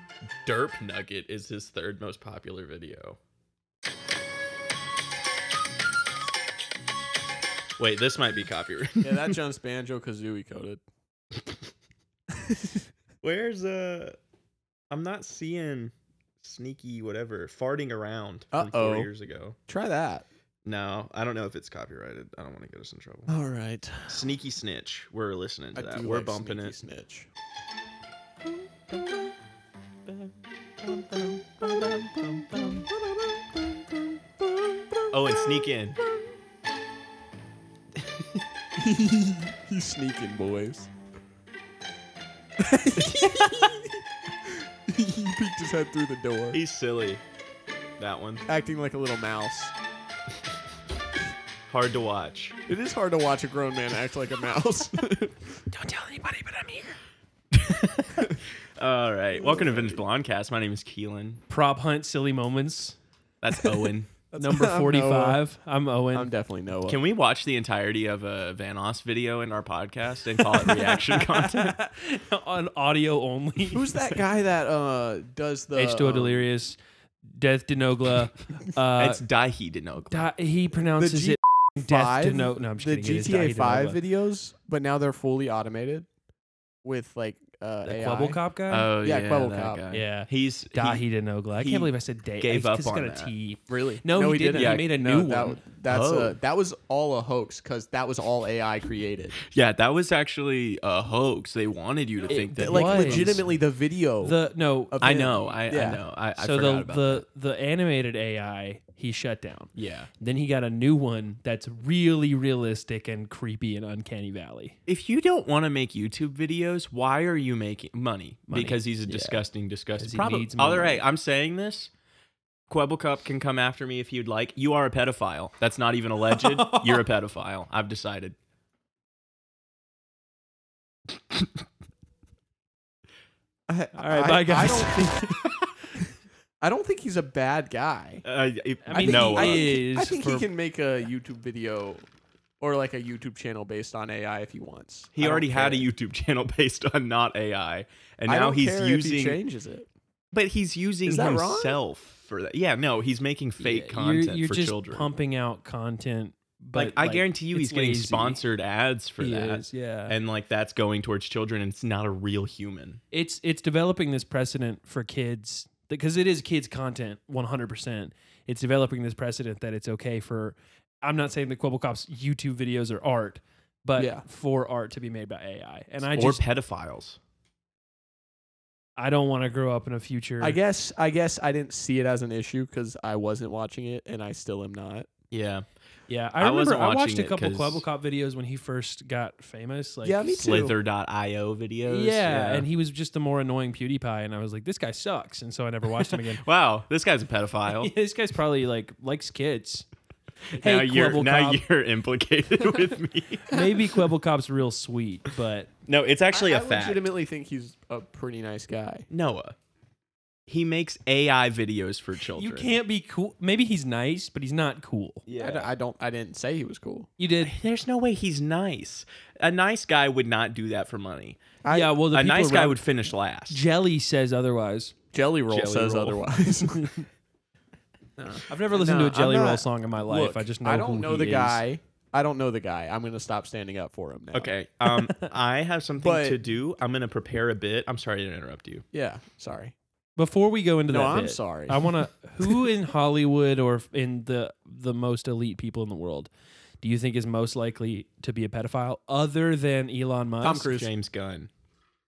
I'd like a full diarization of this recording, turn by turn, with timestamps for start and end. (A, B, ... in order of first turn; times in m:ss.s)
0:00.4-0:03.2 A
0:07.8-0:09.4 A
0:09.0-0:10.8 B
0:12.3-0:12.8 B
0:13.2-0:14.2 A
0:14.9-0:19.6 A
0:18.5-0:19.1 B
0:19.7-0:20.2 B
0:20.6-0:23.4 A
0:23.3-0:24.3 B
0:24.1-0:26.8 A
0:25.8-0:27.3 B
0:28.9-0:29.3 B
0:28.9-0:29.2 A
0:30.1-0:32.9 A
0:30.9-0:36.3 B
0:35.1-0:36.0 A
0:38.8-0:40.9 B
0:42.6-0:46.6 B
0:46.5-0:47.2 A
0:48.0-0:48.4 A
0:48.5-0:49.7 B
0:51.7-0:52.6 A
0:52.7-0:55.4 B
0:55.7-0:57.0 C
0:57.5-1:01.4 A
0:59.4-1:00.0 B
1:01.5-1:03.0 C
1:03.4-1:04.1 A
1:04.3-1:05.4 B
1:04.4-1:06.3 C
1:06.1-1:07.0 B
1:06.9-1:11.8 A
1:10.5-1:14.0 C
1:13.7-1:16.5 B
1:15.8-1:19.2 C
1:19.0-1:20.3 A
1:20.1-1:24.0 C
1:21.0-1:26.1 B
1:26.8-1:28.4 B
1:27.8-1:28.9 C
1:28.7-1:33.3 A
1:29.0-1:29.8 B
1:29.9-1:35.6 C
1:33.7-1:39.4 B
1:34.5-1:34.9 A
1:35.8-1:36.4 A
1:39.4-1:43.4 A
1:42.3-1:43.4 C
1:42.6-1:44.4 B
1:44.2-1:45.0 C
1:44.9-1:46.0 B
1:45.0-1:47.2 A
1:46.4-1:54.8 C
1:49.8-1:50.1 A
1:54.9-2:01.9 A
1:58.5-1:59.4 C
2:00.0-2:01.0 C
2:02.7-2:08.4 A
2:06.3-2:07.0 C
2:13.7-2:15.4 B
2:14.0-2:15.5 C
2:16.6-2:18.2 B
2:18.2-2:19.7 A
2:18.8-2:20.5 C
2:18.9-2:22.1 B
2:22.6-2:25.9 B
2:25.2-2:29.4 A
2:28.3-2:29.9 B
2:30.3-2:35.1 A
2:31.0-2:31.8 B
2:33.6-2:38.4 C
2:36.8-2:43.0 A
2:39.2-2:40.2 C
2:43.1-2:56.4 C
2:54.0-2:54.2 B
2:56.0-2:57.2 A
2:59.0-3:00.6 C
3:00.4-3:05.1 B
3:05.3-3:05.7 A
3:06.1-3:10.3 C
3:06.4-3:07.8 A
3:10.0-3:10.8 B
3:10.3-3:12.7 A
3:11.9-3:16.4 C
3:16.1-3:17.9 A
3:17.7-3:19.9 C
3:20.5-3:23.6 A
3:20.6-3:21.6 C
3:23.5-3:25.7 C
3:25.9-3:27.0 A
3:26.3-3:29.1 B
3:29.1-3:29.6 A
3:30.5-3:32.7 A
3:32.3-3:35.2 C
3:35.3-3:35.7 A
3:35.4-3:37.1 B
3:37.2-3:37.5 C
3:37.4-3:41.6 A
3:41.6-3:42.0 B
3:41.7-3:42.8 C
3:42.1-3:43.6 A
3:43.5-3:44.9 C
3:45.1-3:46.9 B
3:45.5-3:46.2 A
3:46.8-3:47.0 C
3:48.2-3:54.5 B
3:48.5-3:51.6 C
3:54.3-3:58.8 A
3:56.0-3:56.4 B
3:58.9-3:59.8 B
4:00.2-4:06.3 C
4:00.9-4:02.5 B
4:06.8-4:10.7 C
4:10.4-4:10.9 B
4:10.6-4:11.5 A